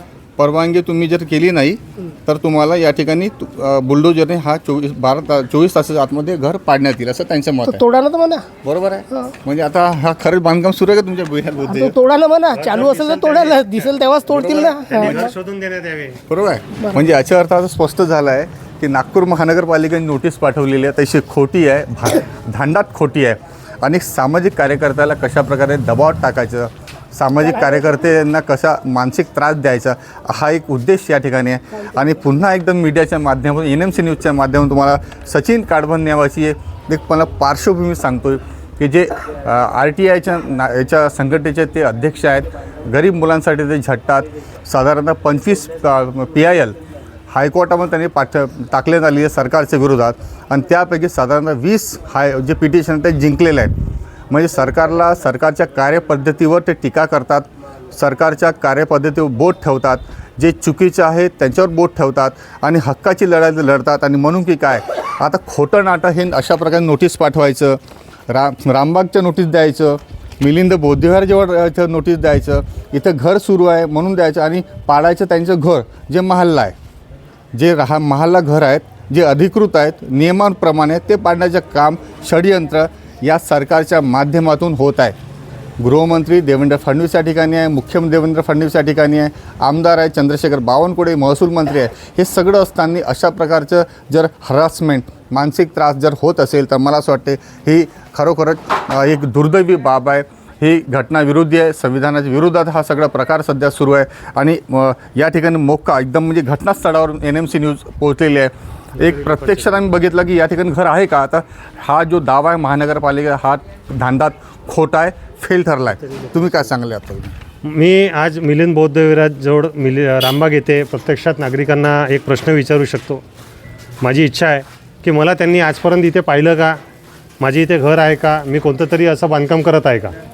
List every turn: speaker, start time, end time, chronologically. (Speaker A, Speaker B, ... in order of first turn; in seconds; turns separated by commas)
Speaker A: 0.4-7.8, Speaker B: 7.7-8.4, Speaker A: 8.6-11.9, Speaker B: 11.7-15.3, Speaker C: 12.5-13.9, Speaker A: 14.3-15.3, Speaker C: 14.8-16.2, Speaker A: 16.3-46.8, Speaker A: 47.3-53.7, Speaker A: 54.3-67.8, Speaker A: 68.3-76.8, Speaker A: 77.5-85.2, Speaker A: 85.8-117.3, Speaker C: 109.0-109.7, Speaker C: 116.0-116.6, Speaker C: 117.7-123.2, Speaker C: 124.0-126.8, Speaker C: 127.4-130.1